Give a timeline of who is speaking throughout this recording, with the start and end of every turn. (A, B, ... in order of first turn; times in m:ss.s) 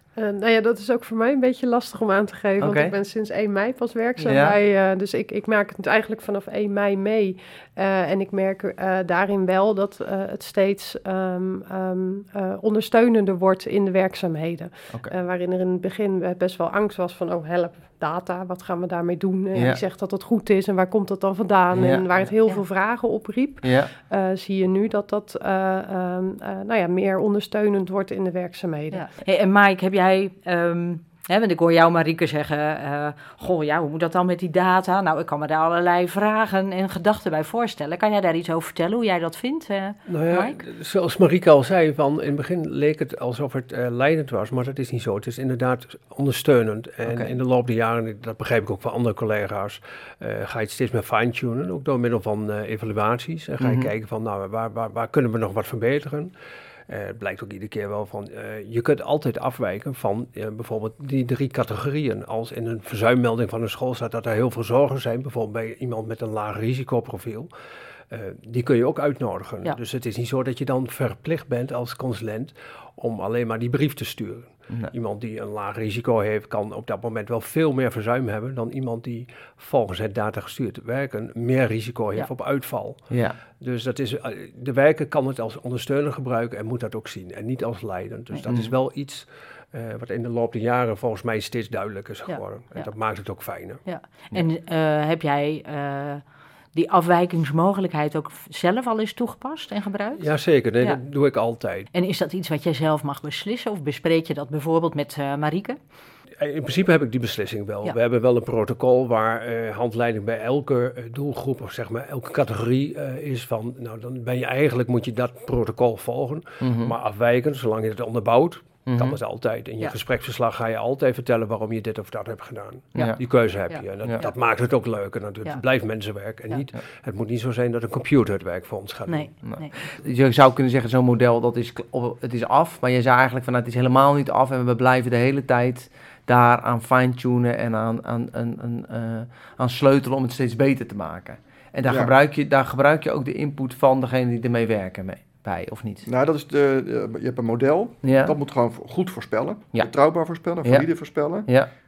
0:00.2-0:29.2 A
0:02.6-0:03.0 B
0:04.2-0:04.6 B
0:19.5-0:19.8 B
0:21.7-0:22.1 B
0:23.6-0:23.9 B
0:28.9-0:40.6 C
0:40.1-0:56.3 D
0:47.0-0:47.4 B
0:53.6-0:53.9 B
0:56.9-1:07.5 D
1:08.1-1:33.8 D
1:23.1-1:23.4 B
1:28.5-1:28.8 B
1:32.3-1:32.9 C
1:33.8-1:41.0 C
1:40.2-1:41.9 D
1:41.9-1:45.8 C
1:46.4-2:09.3 D
1:56.6-1:57.0 B
1:58.9-1:59.2 B
2:02.9-2:03.2 B
2:03.7-2:04.4 C
2:09.1-2:10.0 C
2:09.4-2:26.1 B
2:21.8-2:22.1 E
2:26.1-2:31.5 E
2:28.0-2:28.4 B